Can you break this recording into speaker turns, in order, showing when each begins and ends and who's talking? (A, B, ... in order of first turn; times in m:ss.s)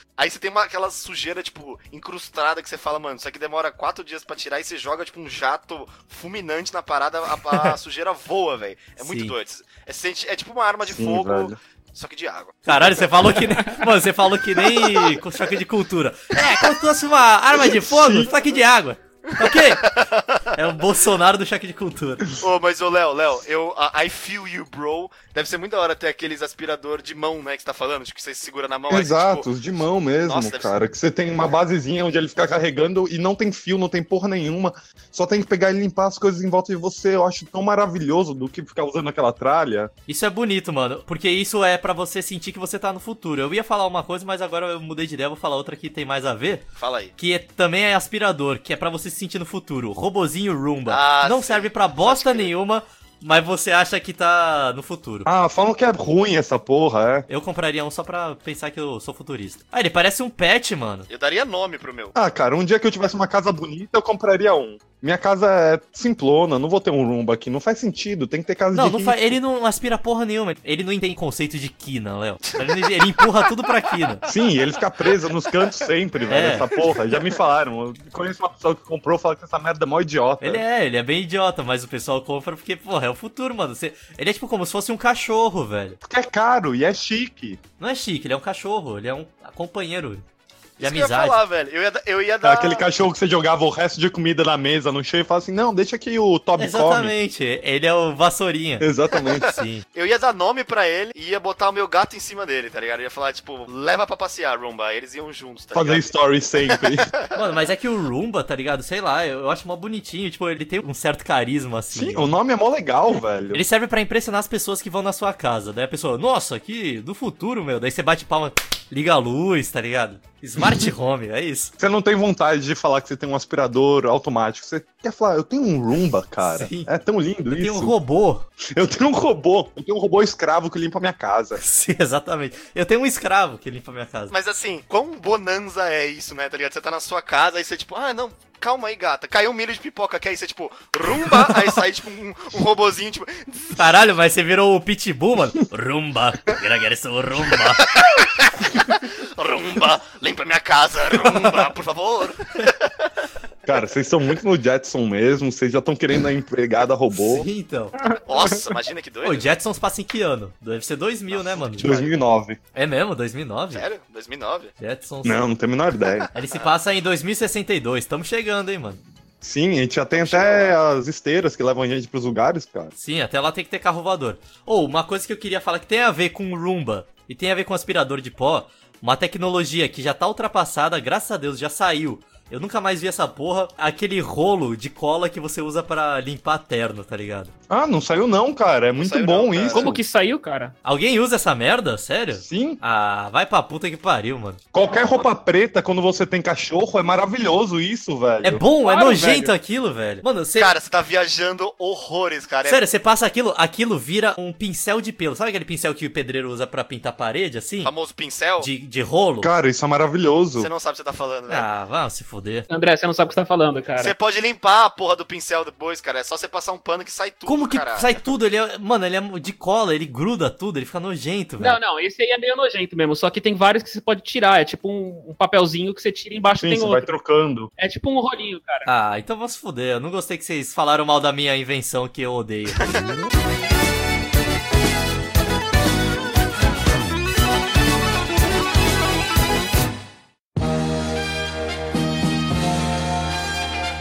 0:00.2-0:12.6 A
0:09.0-0:09.3 B
0:10.8-0:11.6 C
0:12.6-0:19.9 B
0:17.5-0:18.3 C
0:19.3-0:20.5 A
0:20.5-0:22.2 B
0:22.4-0:29.5 A
0:28.9-0:39.9 C
0:30.2-0:30.8 A
0:40.1-0:46.6 B
0:46.8-0:47.1 A
0:47.2-0:55.3 B
0:50.9-0:52.5 A
0:55.2-0:57.2 C
0:57.3-1:01.1 B
1:01.1-1:02.1 A
1:02.1-1:09.4 C
1:08.7-1:14.2 B
1:12.5-1:13.5 A
1:14.2-1:17.2 A
1:14.3-1:20.6 C
1:16.3-1:16.7 B
1:20.4-1:26.0 B
1:26.0-1:27.6 C
1:27.8-1:30.2 B
1:30.8-1:32.8 A
1:30.8-1:31.4 B
1:32.4-1:37.1 C
1:36.6-1:38.9 B
1:38.8-1:39.5 C
1:39.1-1:46.1 A
1:39.4-1:39.8 B
1:45.7-1:47.1 C
1:46.8-1:47.3 A
1:47.3-1:52.3 B
1:51.9-1:53.6 C
1:53.5-2:01.7 B
2:01.8-2:07.9 C
2:06.4-2:06.9 B
2:07.5-2:08.4 B
2:08.6-2:11.6 C
2:11.6-2:14.3 B
2:14.3-2:23.8 A
2:23.7-2:27.9 B
2:27.8-2:33.1 A
2:31.2-2:31.5 B
2:33.6-2:37.5 C
2:37.1-2:38.0 B
2:38.2-2:39.5 A
2:39.2-2:41.9 B
2:41.3-2:42.2 A
2:41.7-2:42.6 C
2:42.7-2:43.8 B
2:43.7-2:44.7 A
2:44.8-2:45.5 B
2:45.2-2:46.3 C
2:46.3-2:49.0 B
2:49.4-2:52.9 C
2:50.1-2:50.7 A
2:53.0-3:07.5 B
3:07.7-3:10.0 C
3:08.9-3:09.9 A
3:09.7-3:10.7 D
3:10.8-3:14.6 B
3:12.4-3:12.8 C
3:14.7-3:18.6 C
3:18.4-3:20.7 B
3:18.8-3:19.5 D
3:20.5-3:22.8 A
3:22.6-3:27.9 B
3:27.8-3:28.7 A
3:28.6-3:29.5 B
3:29.4-3:30.7 C
3:30.6-3:31.7 A
3:31.5-3:32.7 B
3:32.7-3:34.1 D
3:34.0-3:38.2 A
3:37.4-3:41.8 B
3:41.6-3:47.1 D
3:46.6-3:47.7 C
3:47.8-3:48.9 D
3:48.8-3:52.9 B